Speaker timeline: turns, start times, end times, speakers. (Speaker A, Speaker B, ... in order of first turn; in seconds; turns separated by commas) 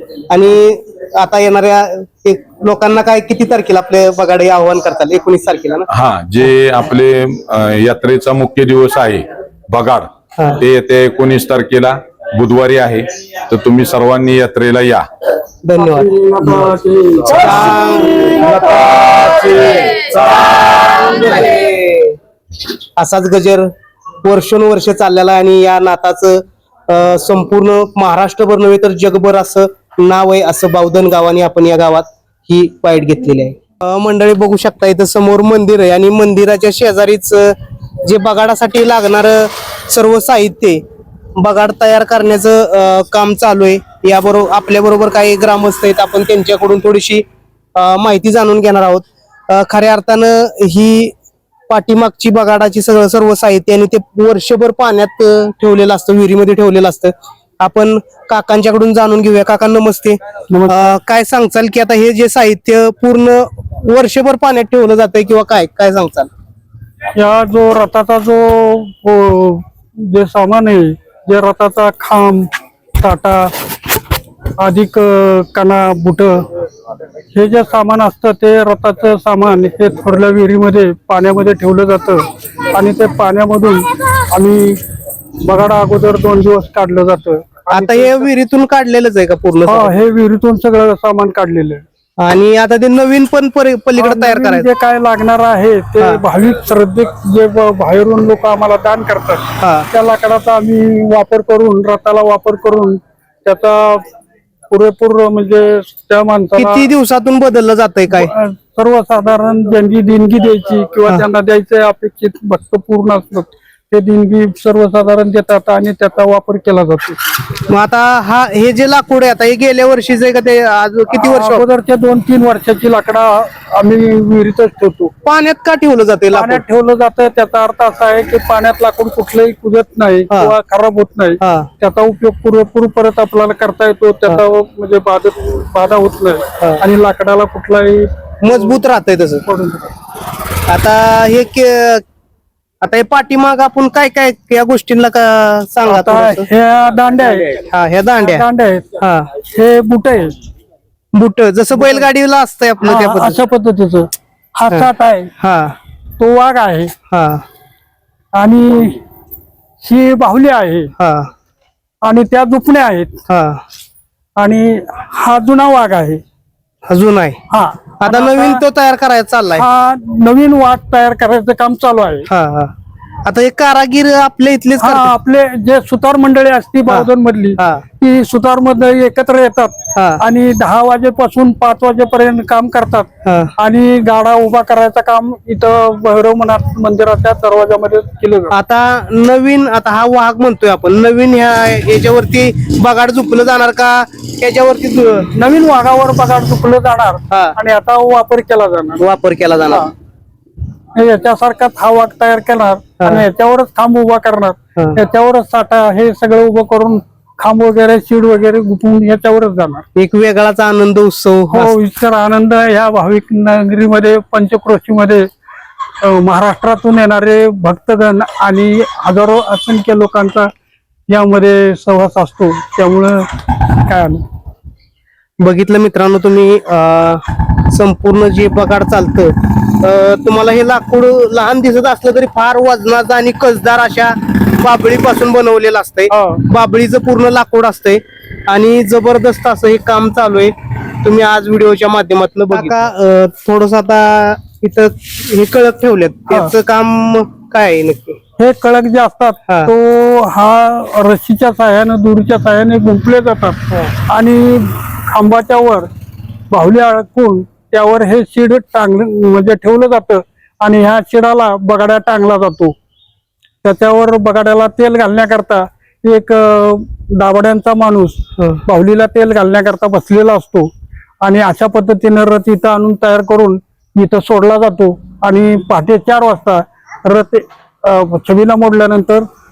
Speaker A: 0.3-5.9, Speaker B: 5.9-15.0, Speaker A: 15.6-16.6, Speaker C: 15.8-19.8, Speaker A: 17.4-22.1, Speaker A: 23.0-23.7, Speaker A: 24.2-40.8, Speaker A: 41.4-47.2, Speaker A: 47.8-51.1, Speaker A: 51.7-66.3, Speaker C: 60.5-60.9, Speaker C: 67.1-73.5, Speaker C: 74.6-76.4, Speaker C: 77.3-84.8, Speaker C: 85.4-88.2, Speaker A: 87.7-89.9, Speaker C: 89.6-91.8, Speaker A: 92.2-94.7, Speaker C: 93.9-104.0, Speaker A: 99.6-99.9, Speaker C: 104.7-106.9, Speaker A: 106.5-108.3, Speaker C: 108.1-117.2, Speaker A: 117.7-121.7, Speaker C: 121.1-125.1, Speaker A: 125.2-126.6, Speaker C: 126.3-138.8, Speaker A: 131.4-131.7, Speaker A: 138.4-139.4, Speaker C: 139.4-139.9, Speaker A: 140.7-142.0, Speaker A: 142.8-146.5, Speaker C: 145.9-147.6, Speaker A: 147.6-148.4, Speaker C: 148.2-150.3, Speaker A: 149.0-149.3, Speaker A: 151.1-153.4, Speaker C: 152.8-155.3, Speaker A: 154.7-155.7, Speaker C: 156.2-156.9, Speaker A: 157.1-157.4, Speaker C: 158.3-159.0, Speaker C: 159.8-160.9, Speaker A: 161.0-161.3, Speaker C: 162.0-163.2, Speaker A: 163.3-163.6, Speaker C: 164.4-166.2, Speaker A: 166.9-167.4, Speaker C: 167.5-168.6, Speaker A: 168.0-169.6, Speaker C: 169.5-172.3, Speaker A: 172.3-172.7, Speaker A: 173.2-175.1, Speaker C: 174.8-188.5, Speaker A: 176.9-177.8, Speaker A: 179.9-180.2, Speaker A: 183.2-183.5, Speaker A: 188.5-195.3, Speaker C: 195.3-199.1, Speaker A: 199.0-199.9, Speaker C: 200.9-209.8, Speaker A: 209.9-211.7, Speaker C: 211.5-215.3, Speaker C: 216.0-220.5, Speaker C: 221.1-223.3, Speaker C: 223.8-224.2, Speaker A: 225.4-240.5, Speaker C: 236.1-236.4, Speaker A: 241.0-248.2, Speaker C: 248.4-255.9, Speaker C: 256.5-262.7, Speaker C: 263.6-279.2